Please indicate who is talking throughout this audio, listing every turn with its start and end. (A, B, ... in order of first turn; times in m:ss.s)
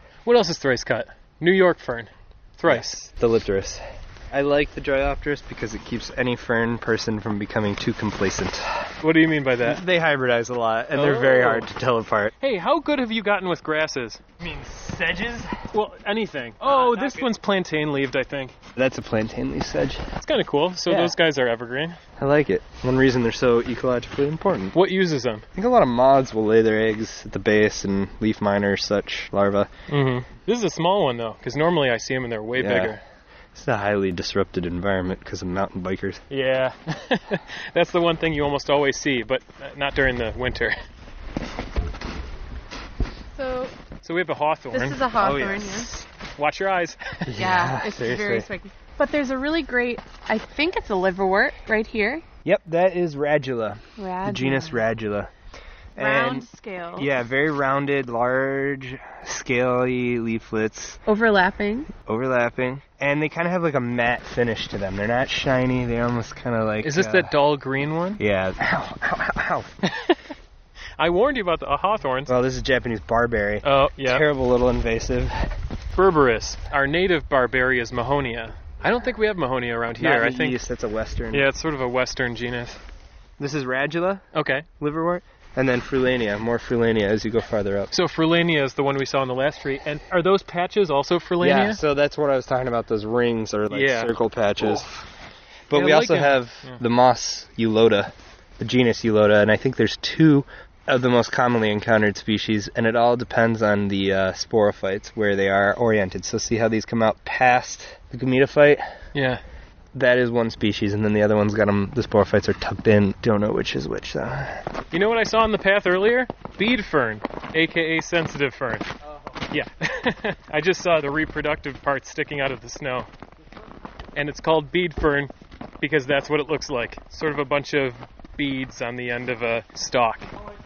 0:00.2-0:03.1 A
0:02.7-0:09.0 B
0:09.0-0:09.8 A
0:09.6-0:12.3 B
0:11.0-0:11.7 A
0:12.4-0:14.2 A
0:14.4-0:15.6 B
0:15.7-0:18.6 A
0:16.6-0:17.3 B
0:18.8-0:20.1 B
0:20.2-0:22.0 A
0:20.9-0:21.2 B
0:22.2-0:24.8 B
0:24.7-0:25.5 A
0:25.6-0:29.7 B
0:29.9-0:33.0 A
0:32.6-0:33.0 B
0:33.5-0:36.2 B
0:36.3-0:40.8 A
0:43.3-0:43.7 C
0:44.0-0:45.0 A
0:44.7-0:45.9 C
0:45.2-0:46.1 B
0:46.4-0:47.3 A
0:47.3-0:48.5 B
0:47.4-0:52.2 C
0:52.4-0:55.3 B
0:54.0-0:54.8 C
0:56.0-1:01.0 B
0:56.0-0:57.1 C
1:01.1-1:01.9 C
1:02.0-1:07.3 B
1:06.8-1:08.2 A
1:08.2-1:09.7 B
1:09.8-1:10.3 A
1:11.0-1:12.3 A
1:12.3-1:15.5 B
1:13.6-1:14.3 A
1:15.9-1:20.6 A
1:20.0-1:21.5 B
1:21.3-1:22.8 A
1:23.4-1:24.3 B
1:24.3-1:24.7 A
1:24.8-1:27.9 B
1:27.9-1:31.8 A
1:31.4-1:35.0 B
1:33.7-1:34.1 A
1:35.7-1:48.8 B
1:35.7-1:36.8 A
1:49.1-1:49.4 A
1:49.9-1:54.6 B
1:54.9-1:58.9 A
1:59.5-2:03.1 A
2:04.2-2:10.3 A